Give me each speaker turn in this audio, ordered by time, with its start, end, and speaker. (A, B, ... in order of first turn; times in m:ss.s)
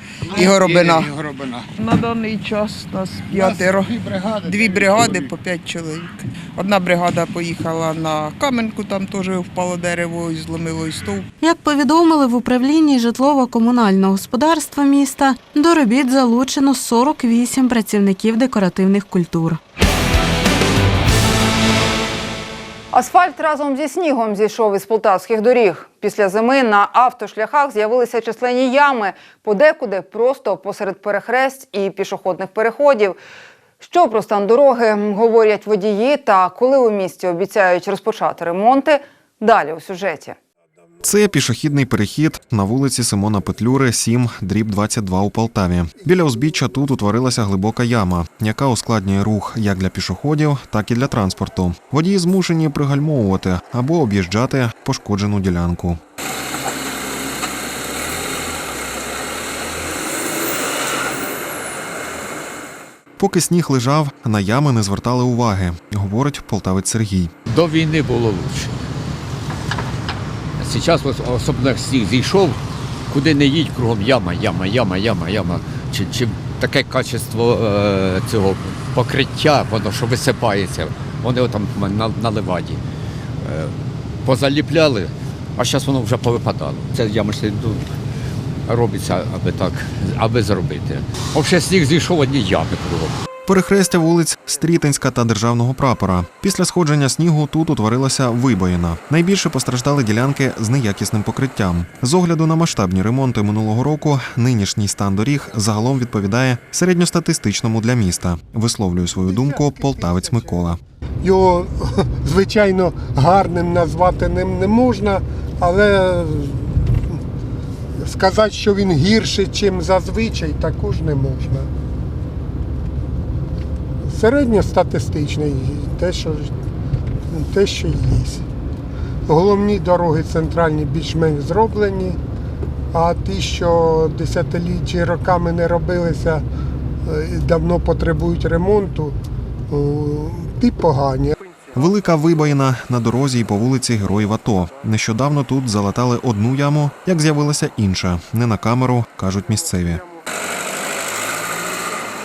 0:00.3-0:01.1 A
0:00.6-0:01.6 B
0:01.8-0:11.3 A
0:03.4-0:05.3 B
0:11.4-0:19.6 C
0:22.9-0:33.2 D
0:33.8-0:40.4 D
0:41.0-0:56.0 E
1:03.2-1:07.3 E
1:07.5-1:08.7 F
1:10.6-1:22.8 F
1:23.4-1:27.9 F
1:28.7-1:33.2 F
1:33.5-1:50.8 E
1:49.3-1:50.6 G
1:51.2-1:56.9 G
1:58.0-2:01.7 G
2:04.0-2:06.5 G
2:07.3-2:08.4 G
2:09.3-2:12.2 G
2:12.9-2:16.4 G
2:17.1-2:19.2 G
2:19.7-2:21.4 G
2:21.8-2:30.0 E